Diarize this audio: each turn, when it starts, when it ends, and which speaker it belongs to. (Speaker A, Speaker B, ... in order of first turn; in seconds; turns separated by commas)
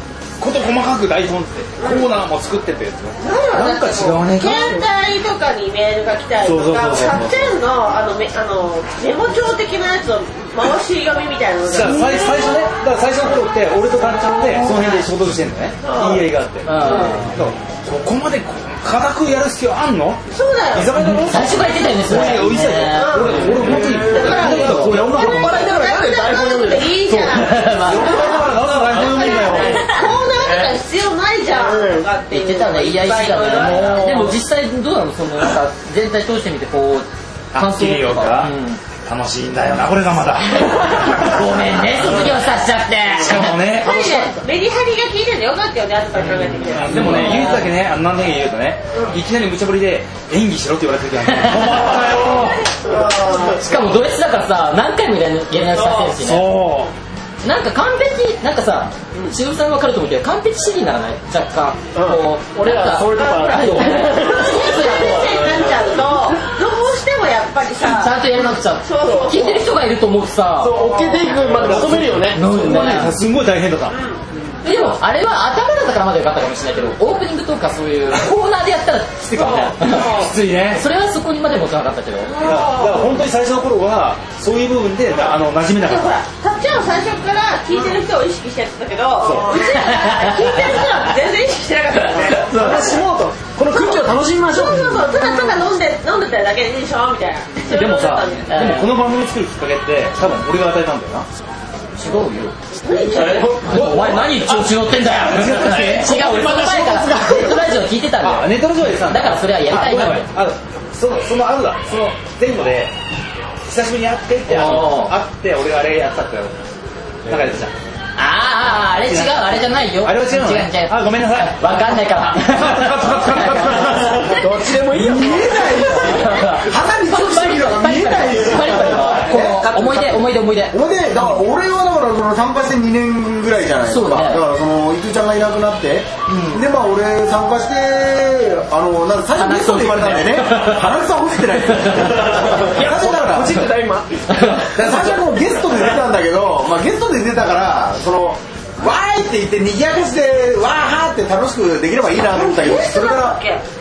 Speaker A: 0.4-4.8, Speaker B: 1.8-2.1, Speaker B: 3.2-12.6, Speaker A: 6.4-7.5, Speaker A: 11.7-20.2, Speaker B: 14.6-15.0, Speaker B: 15.8-16.3, Speaker C: 16.6-17.3, Speaker B: 20.3-21.1, Speaker A: 20.7-25.8, Speaker C: 21.2-24.9, Speaker B: 22.9-34.3, Speaker D: 23.8-26.9, Speaker A: 27.1-30.7, Speaker C: 27.3-28.3, Speaker D: 31.5-32.1, Speaker C: 32.3-38.8, Speaker A: 33.5-34.2, Speaker A: 37.5-38.5, Speaker A: 39.0-42.3, Speaker C: 40.9-44.4, Speaker A: 43.2-44.0, Speaker B: 43.8-47.5, Speaker A: 46.5-52.7, Speaker C: 46.9-47.7, Speaker C: 51.3-51.8, Speaker B: 52.9-53.6, Speaker D: 53.2-53.5, Speaker C: 53.4-56.6, Speaker B: 55.7-56.1, Speaker A: 56.2-56.9, Speaker C: 57.4-65.6, Speaker D: 61.9-64.8, Speaker B: 64.0-69.7, Speaker C: 67.8-70.8, Speaker D: 69.0-69.3, Speaker D: 70.6-72.5, Speaker B: 70.9-71.3, Speaker A: 71.4-74.0, Speaker C: 72.3-73.2, Speaker B: 73.9-74.2, Speaker C: 74.6-80.1, Speaker B: 79.4-80.3, Speaker A: 79.8-80.8, Speaker C: 80.7-82.3, Speaker B: 82.4-83.1, Speaker A: 82.4-86.2, Speaker B: 85.8-93.0, Speaker A: 89.2-89.6, Speaker C: 89.5-90.8, Speaker D: 92.3-95.3, Speaker B: 93.7-94.0, Speaker B: 94.5-98.5, Speaker A: 97.7-101.2, Speaker C: 98.5-98.9, Speaker C: 102.0-102.6, Speaker B: 102.8-103.6, Speaker D: 102.9-104.1, Speaker A: 103.2-106.1, Speaker C: 103.6-110.3, Speaker D: 106.1-107.6, Speaker A: 108.2-112.9, Speaker A: 113.6-116.5, Speaker C: 114.5-115.2, Speaker A: 117.2-117.7, Speaker C: 118.2-124.4, Speaker A: 119.0-121.8, Speaker A: 122.4-124.2, Speaker D: 124.2-126.4, Speaker E: 125.0-129.7, Speaker C: 126.1-131.4, Speaker D: 128.6-130.3, Speaker E: 130.7-143.6, Speaker C: 133.9-134.4, Speaker C: 136.3-136.6, Speaker C: 139.3-140.9, Speaker C: 141.8-142.6, Speaker D: 142.6-144.3, Speaker C: 144.3-144.6, Speaker E: 144.7-153.4, Speaker B: 152.3-153.6